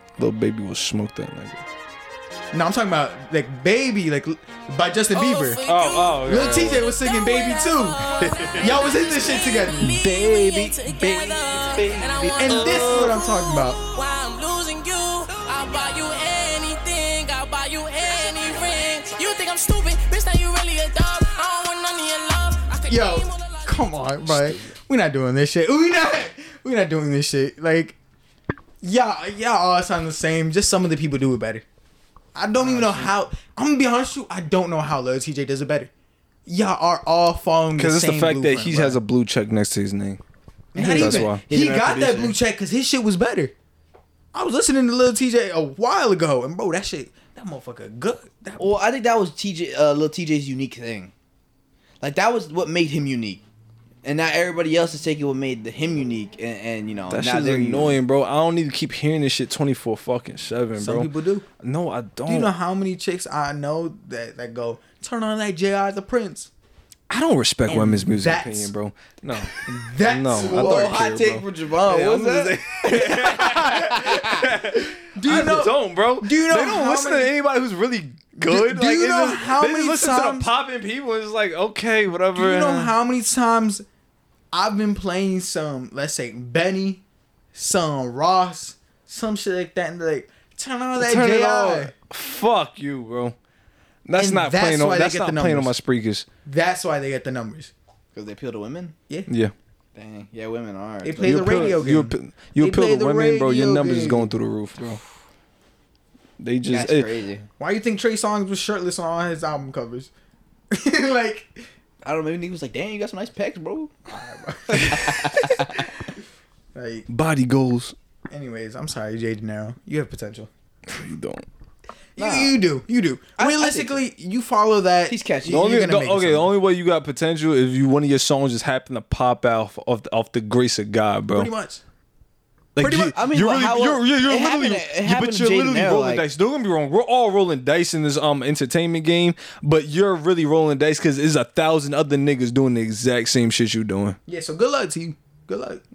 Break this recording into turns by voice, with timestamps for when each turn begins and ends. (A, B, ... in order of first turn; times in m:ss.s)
0:00.2-0:01.6 A
0:02.5-0:05.6 B
0:05.1-0:06.3 C
0:05.6-0:06.9 A
0:06.2-0:10.0 B
0:06.8-0:24.1 C
0:08.2-0:08.7 A
0:10.0-0:13.1 D
0:12.4-0:13.8 B
0:22.9-0:28.0 B
0:28.8-0:31.6 B
0:32.3-0:35.9 B
0:32.6-0:33.1 D
0:36.4-0:39.0 B
0:37.8-0:40.2 A
0:40.7-0:43.5 B
0:40.8-0:42.4 D
0:40.8-0:41.4 A
0:44.3-0:48.7 B
0:48.6-0:51.1 D
0:52.0-0:53.4 D
0:54.0-0:58.0 D
0:57.1-1:01.1 A
1:00.8-1:01.4 B
1:01.6-1:02.5 A
1:02.3-1:06.5 B
1:07.1-1:22.9 A
1:07.7-1:08.7 B
1:09.6-1:11.0 B
1:10.4-1:14.4 D
1:15.1-1:17.3 B
1:18.4-1:20.5 B
1:22.3-1:23.8 B
1:24.5-1:27.0 B
1:27.5-1:31.9 B
1:31.0-1:33.4 A
1:34.0-1:36.3 A
1:34.2-1:35.7 B
1:36.4-1:37.7 B
1:38.1-1:38.9 D
1:39.3-1:39.5 A
1:39.9-1:41.7 D
1:41.0-1:44.3 B
1:41.2-1:45.0 A
1:46.4-1:47.1 A
1:46.7-1:47.5 D
1:47.6-1:50.1 B
1:50.7-1:51.7 B
1:52.0-1:53.9 D
1:54.1-1:55.1 B
1:54.7-1:55.8 D
1:56.7-1:57.1 B
1:57.1-1:57.9 A
1:58.3-2:00.5 B
2:00.9-2:01.4 A
2:02.2-2:06.5 B
2:02.2-2:02.6 D
2:03.4-2:04.0 D
2:05.1-2:05.7 D
2:05.5-2:11.5 A
2:11.3-2:11.8 B
2:12.8-2:24.2 A
2:12.8-2:13.1 B
2:13.1-2:16.2 D
2:24.3-2:25.8 B